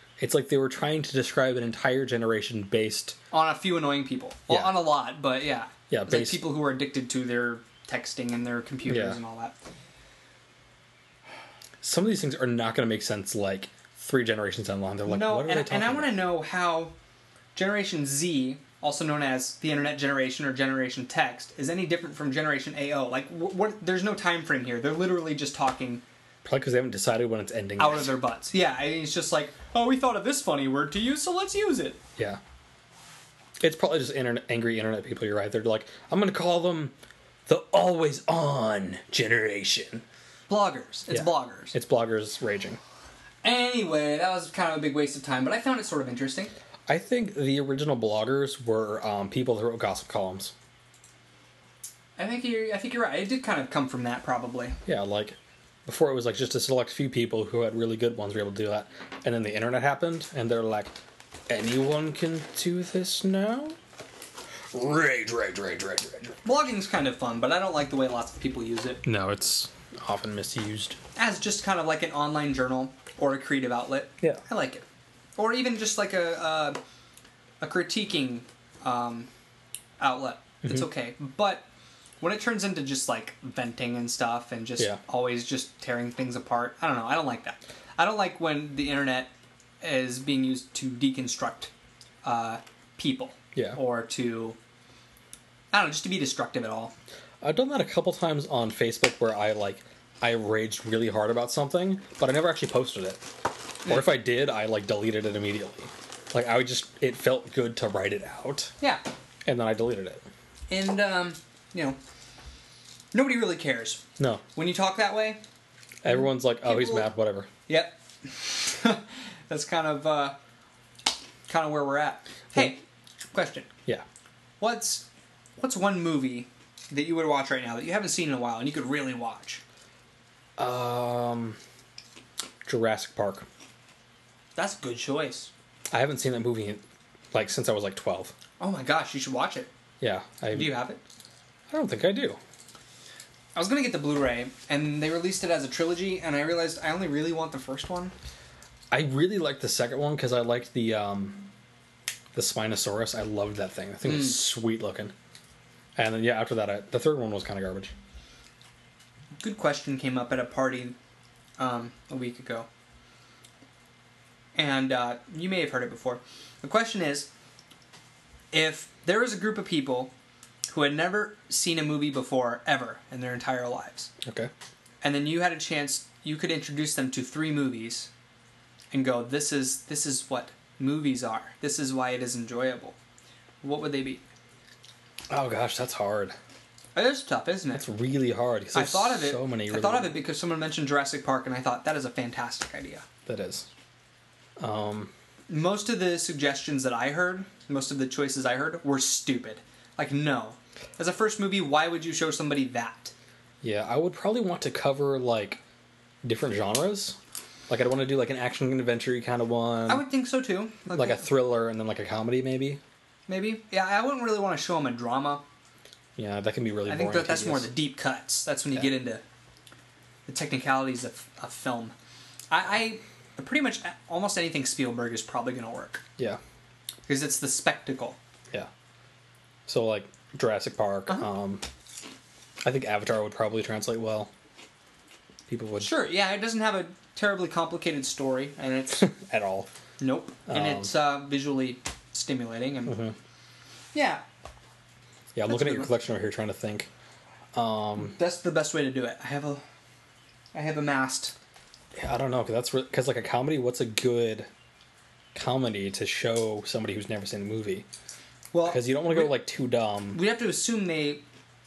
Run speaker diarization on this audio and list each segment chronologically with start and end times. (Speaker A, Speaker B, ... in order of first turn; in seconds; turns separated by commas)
Speaker A: 0.2-3.2, Speaker B: 3.3-9.6, Speaker A: 4.5-4.9, Speaker A: 5.9-6.5, Speaker A: 8.9-9.2, Speaker A: 11.8-16.2, Speaker B: 15.1-16.9, Speaker B: 17.6-26.0, Speaker A: 26.4-28.1, Speaker B: 27.8-32.0, Speaker A: 33.6-36.9, Speaker A: 37.5-40.0, Speaker B: 40.5-41.8, Speaker A: 41.1-42.8, Speaker B: 43.4-46.5, Speaker A: 46.9-50.5, Speaker B: 52.2-54.8, Speaker A: 54.9-60.9, Speaker A: 61.5-63.8, Speaker A: 64.7-66.4, Speaker B: 66.4-69.0, Speaker A: 69.0-71.0, Speaker B: 71.2-74.8, Speaker B: 75.4-76.8, Speaker B: 77.6-79.3, Speaker B: 80.0-81.7, Speaker B: 82.2-89.3, Speaker B: 89.8-91.7, Speaker B: 92.2-94.6, Speaker B: 95.7-96.9, Speaker A: 97.4-103.2, Speaker A: 103.8-108.7, Speaker A: 109.5-110.2, Speaker B: 110.7-112.0, Speaker B: 113.1-114.0, Speaker A: 114.2-114.4, Speaker B: 114.5-115.4, Speaker A: 116.0-117.5, Speaker B: 116.6-117.1, Speaker B: 117.7-120.4, Speaker B: 121.5-122.8, Speaker B: 123.3-123.7, Speaker B: 124.6-125.1, Speaker B: 125.6-129.6, Speaker A: 130.6-131.6, Speaker A: 132.7-133.5, Speaker B: 134.6-135.5, Speaker A: 135.9-136.8, Speaker A: 137.3-138.3, Speaker B: 138.6-139.7, Speaker A: 140.0-140.8, Speaker B: 140.5-141.0, Speaker A: 141.7-142.4, Speaker B: 143.6-148.1, Speaker A: 148.9-151.5, Speaker A: 152.3-155.1, Speaker B: 154.1-154.4, Speaker A: 156.0-157.9, Speaker B: 159.4-160.9, Speaker B: 161.6-162.7, Speaker B: 164.6-167.3, Speaker B: 168.5-170.1, Speaker B: 170.7-174.1, Speaker A: 174.2-174.5, Speaker B: 175.0-178.1, Speaker B: 178.9-183.0, Speaker B: 183.6-184.2, Speaker A: 185.3-186.4, Speaker B: 186.9-187.8, Speaker A: 187.8-190.2, Speaker B: 188.7-193.1, Speaker A: 193.3-193.7, Speaker A: 194.6-195.1, Speaker B: 195.5-203.1, Speaker A: 203.6-205.6, Speaker A: 206.2-207.2, Speaker A: 207.7-210.1, Speaker B: 209.9-211.3, Speaker A: 210.9-212.8, Speaker B: 213.3-215.4, Speaker A: 216.2-217.7, Speaker B: 216.9-219.2, Speaker B: 220.3-221.9, Speaker B: 222.5-226.0, Speaker B: 227.1-228.2, Speaker A: 229.7-231.6, Speaker A: 232.6-234.3, Speaker A: 235.5-236.0, Speaker B: 235.8-239.1, Speaker A: 239.0-239.7, Speaker B: 240.0-243.0, Speaker A: 240.5-240.9, Speaker A: 242.9-243.2, Speaker B: 243.9-244.2, Speaker A: 245.3-246.9, Speaker B: 245.5-245.9, Speaker A: 247.5-248.2, Speaker B: 248.0-249.6, Speaker B: 250.5-251.3, Speaker A: 251.9-254.5, Speaker A: 255.3-257.9, Speaker B: 258.5-259.4, Speaker A: 258.6-260.2, Speaker B: 260.1-261.2